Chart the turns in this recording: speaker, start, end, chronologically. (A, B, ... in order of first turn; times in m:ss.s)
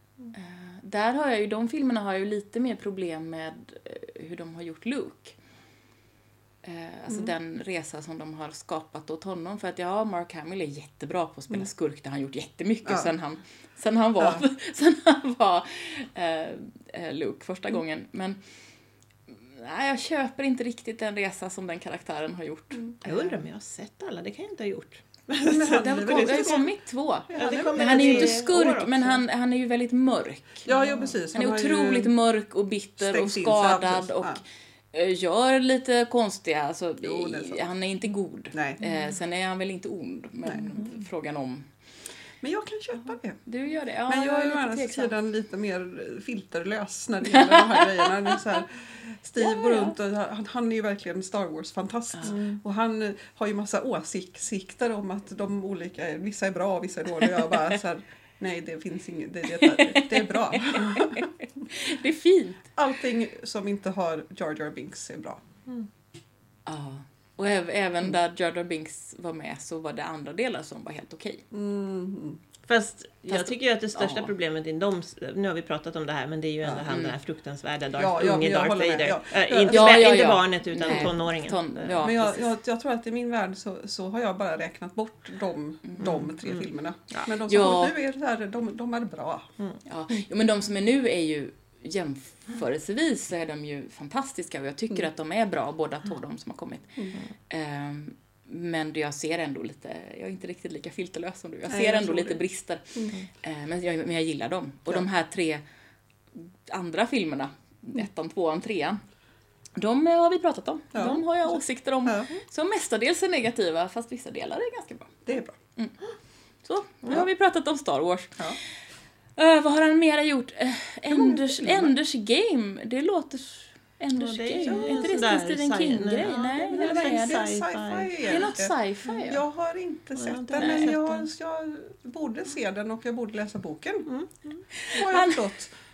0:00.3-0:05.4 A
0:06.6-0:18.4 A
0:12.8-0:13.1 B
0:14.2-0:14.4 B
0:19.3-0:23.4 A
0:23.0-0:26.7 C
0:25.4-0:26.7 B
0:25.7-0:30.7 A
0:27.3-0:28.4 B
0:27.3-0:29.2 C
0:30.6-0:32.1 B
0:31.3-0:34.4 A
0:33.0-0:34.4 B
0:34.9-0:41.6 A
0:37.0-0:37.6 B
0:38.5-0:38.8 B
0:42.4-0:43.4 B
0:43.4-0:45.1 A
0:44.1-1:01.3 B
0:47.3-0:48.0 A
0:49.4-0:49.9 A
0:59.5-1:02.7 A
1:02.7-1:05.4 B
1:06.6-1:11.4 A
1:11.5-1:12.4 B
1:12.7-1:22.0 C
1:13.3-1:14.3 A
1:16.9-1:17.1 A
1:18.0-1:20.3 B
1:19.7-1:22.5 A
1:22.0-1:29.5 B
1:25.8-1:26.2 A
1:26.0-1:27.3 C
1:27.4-1:27.9 A
1:29.8-1:45.6 A
1:41.7-1:42.4 B
1:46.3-1:49.0 A
1:49.8-1:55.2 A
1:50.9-1:52.3 B
1:55.2-1:55.6 B
1:56.6-1:58.4 A
1:59.4-2:07.4 A
2:01.1-2:01.9 B
2:04.2-2:08.5 C
2:04.6-2:05.0 B
2:06.7-2:14.1 B
2:08.3-2:09.4 A
2:10.2-2:11.3 C
2:10.6-2:10.9 A
2:14.1-2:14.6 C
2:14.8-2:15.4 A
2:14.9-2:15.7 B